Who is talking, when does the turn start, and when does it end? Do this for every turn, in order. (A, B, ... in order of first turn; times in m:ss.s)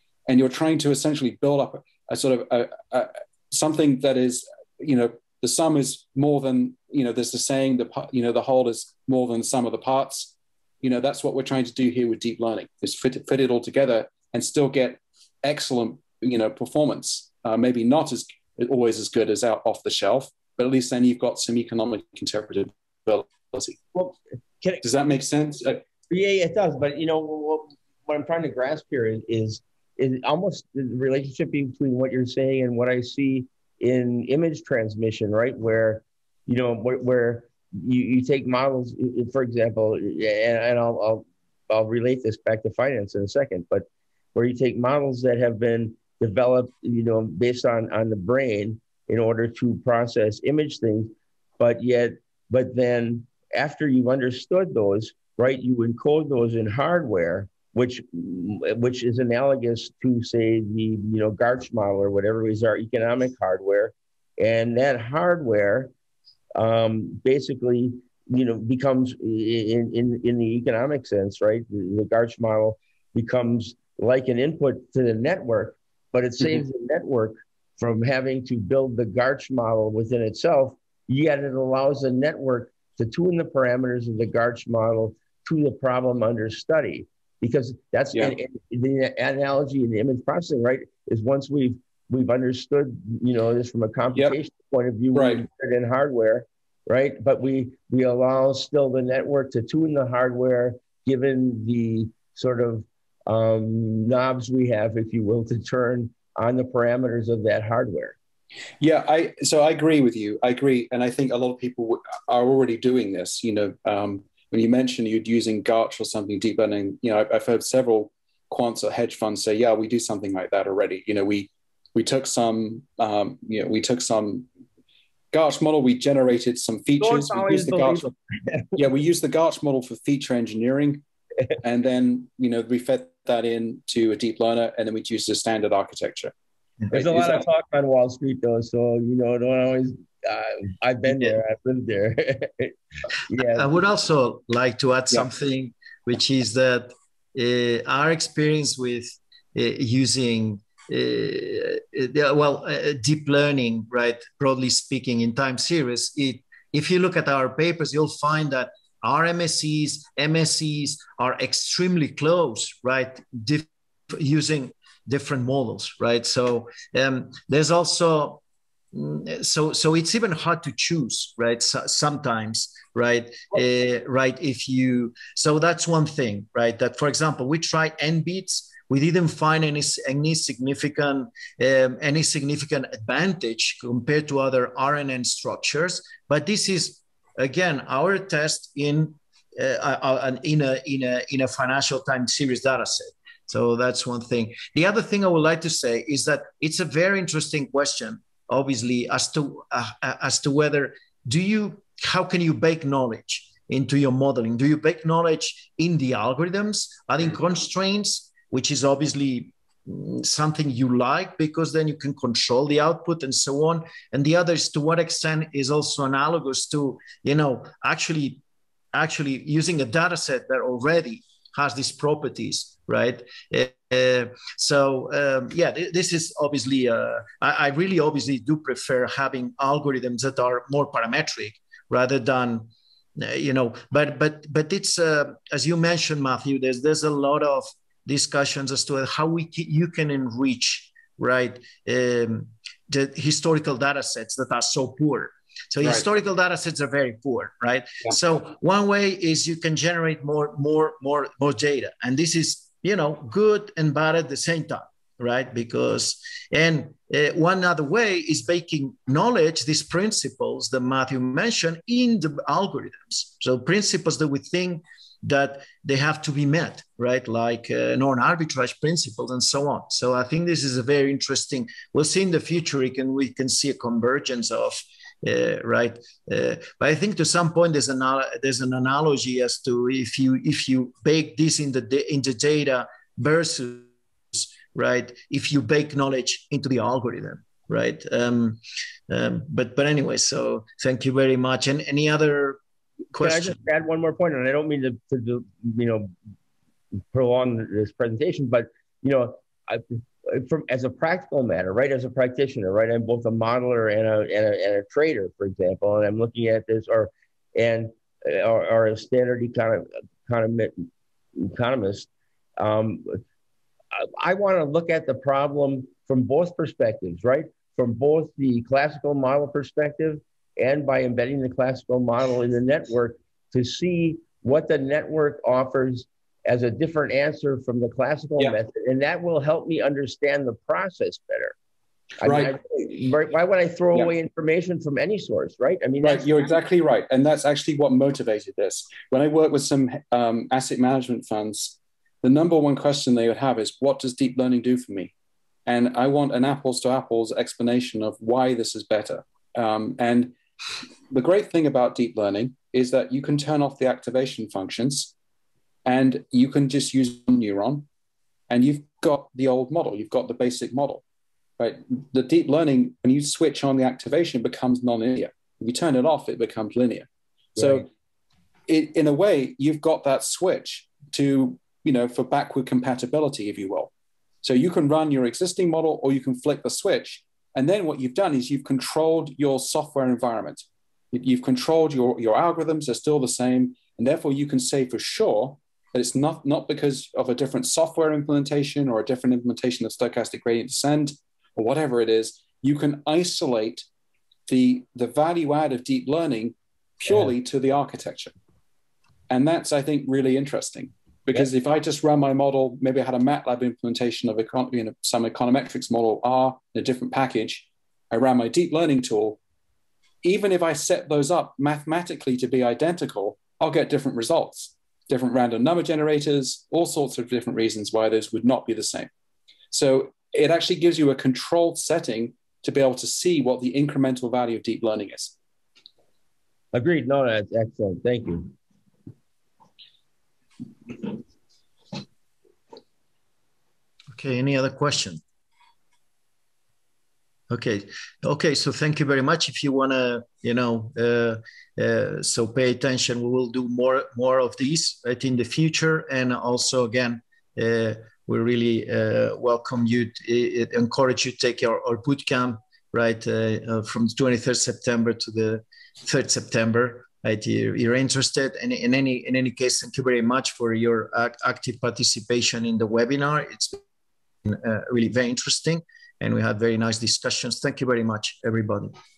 0:00.3-0:23.8 A
0:23.9-0:24.8 B
0:24.8-0:25.8 A
0:26.1-1:05.9 B
1:06.6-1:48.2 B
1:35.1-1:35.4 A
1:48.8-2:04.5 A
2:05.3-2:08.1 A
2:07.0-2:08.8 B
2:08.7-2:11.0 A
2:11.6-2:16.3 A
2:16.9-2:22.7 B
2:17.0-2:17.4 A
2:23.3-2:23.7 B
2:23.4-2:48.4 C
2:48.9-3:38.4 C
3:38.9-4:52.6 C
4:53.1-4:53.6 C
4:53.2-4:56.1 B
4:57.1-5:13.2 B
5:14.0-5:31.6 B
5:32.2-5:36.3 B
5:32.2-5:32.5 A
5:36.0-5:45.1 A
5:45.6-5:50.4 A
5:51.1-5:55.1 A
5:55.8-5:57.9 A
5:58.5-6:01.0 A
6:01.6-6:07.8 A
6:07.6-6:07.8 B
6:08.7-6:13.9 A
6:14.4-6:33.9 A
6:34.5-6:38.3 A
6:39.3-6:49.4 A
6:50.2-6:59.1 A
6:59.7-7:05.4 A
7:06.7-7:08.5 B
7:14.1-7:15.2 C
7:17.5-7:43.8 C
7:44.4-7:48.9 C